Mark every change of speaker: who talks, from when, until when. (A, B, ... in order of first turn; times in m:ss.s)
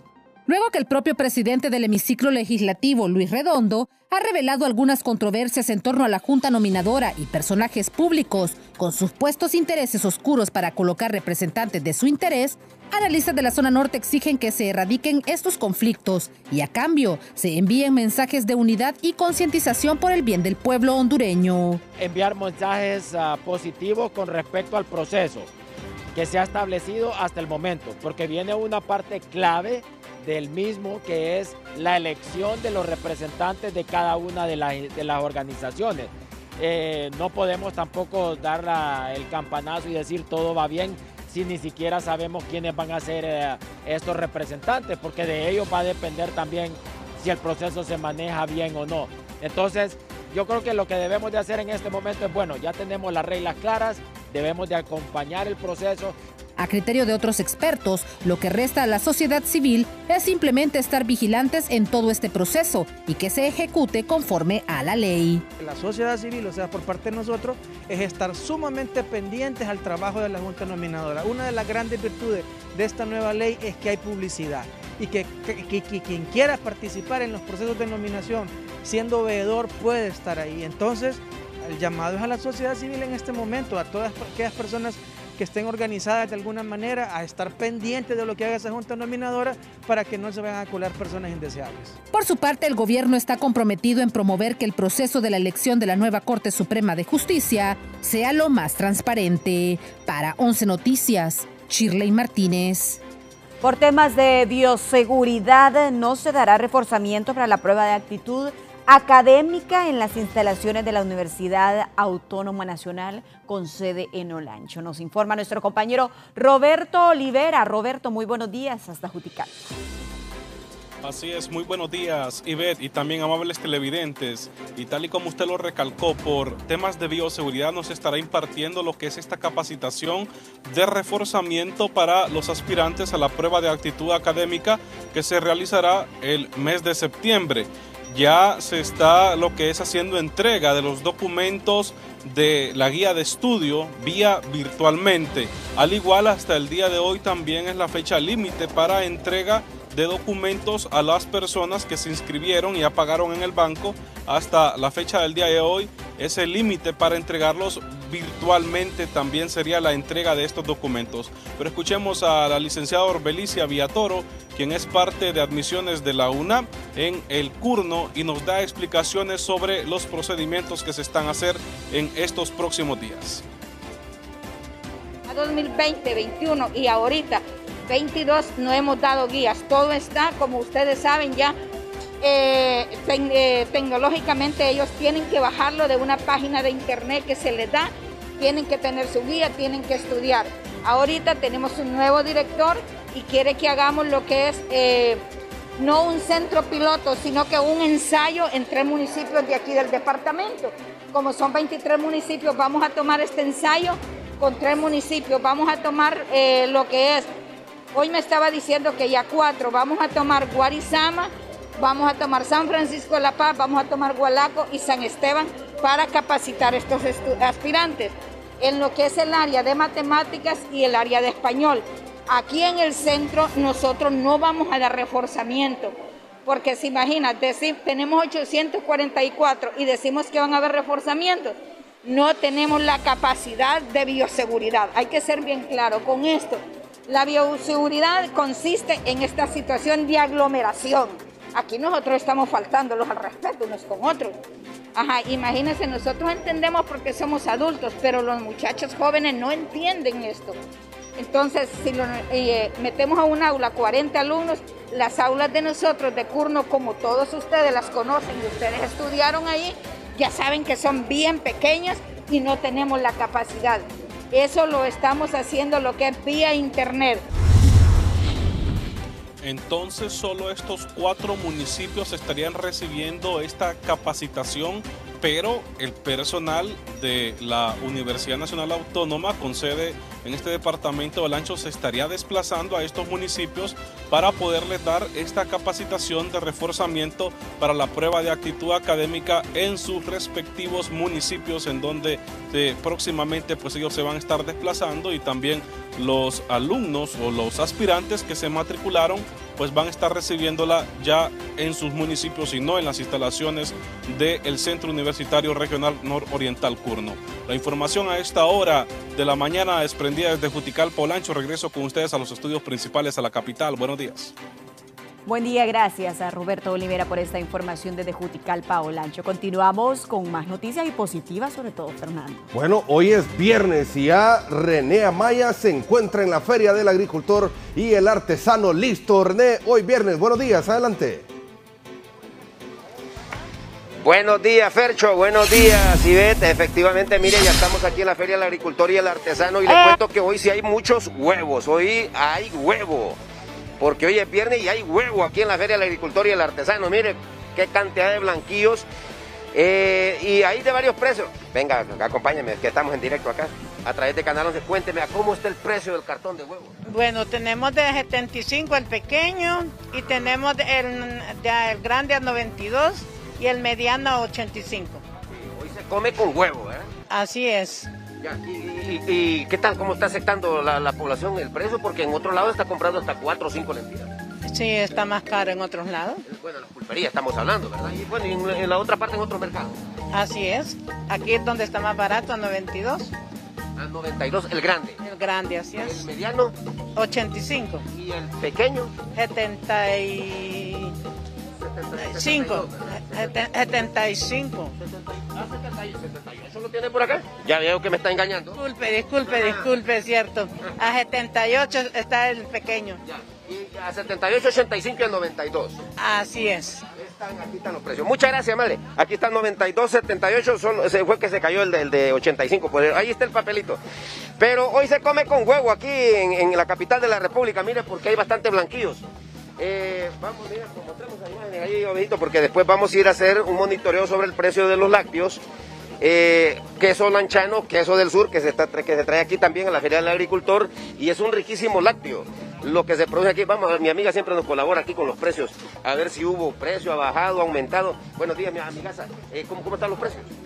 0:00.5-0:21.8 A
0:22.0-0:25.5 B
0:26.1-0:56.2 B
0:56.6-1:05.4 A
1:05.6-1:32.0 C
1:32.1-1:43.0 A
1:43.6-1:59.6 D
2:01.0-2:53.4 E
2:55.3-3:01.6 F
3:02.2-3:15.2 F
3:15.8-3:27.3 F
3:27.9-3:45.9 F
3:46.4-4:04.4 F
4:04.9-4:10.6 F
4:11.2-4:27.2 F
4:29.4-5:14.3 E
5:15.2-5:22.5 D
5:22.5-5:31.3 G
5:34.0-5:43.2 H
5:39.7-5:40.0 D
5:43.8-5:48.8 H
5:49.5-5:56.7 H
5:56.9-6:05.0 I
6:05.5-6:06.9 H
6:07.1-6:07.9 I
6:08.2-6:14.1 H
6:14.5-6:16.2 I
6:16.3-6:19.8 H
6:20.1-6:23.1 I
6:23.8-6:25.0 H
6:25.0-6:26.1 I
6:25.7-6:26.5 H
6:27.0-6:27.8 I
6:27.9-6:28.9 H
6:29.1-6:30.9 I
6:31.6-6:33.4 H
6:32.0-6:34.7 I
6:34.8-6:38.6 H
6:38.6-6:43.0 I
6:39.2-6:39.7 H
6:43.1-6:45.8 H
6:46.0-6:46.8 I
6:46.9-6:53.8 H
6:54.4-6:59.0 H
6:59.6-7:05.4 H
7:06.0-7:20.3 H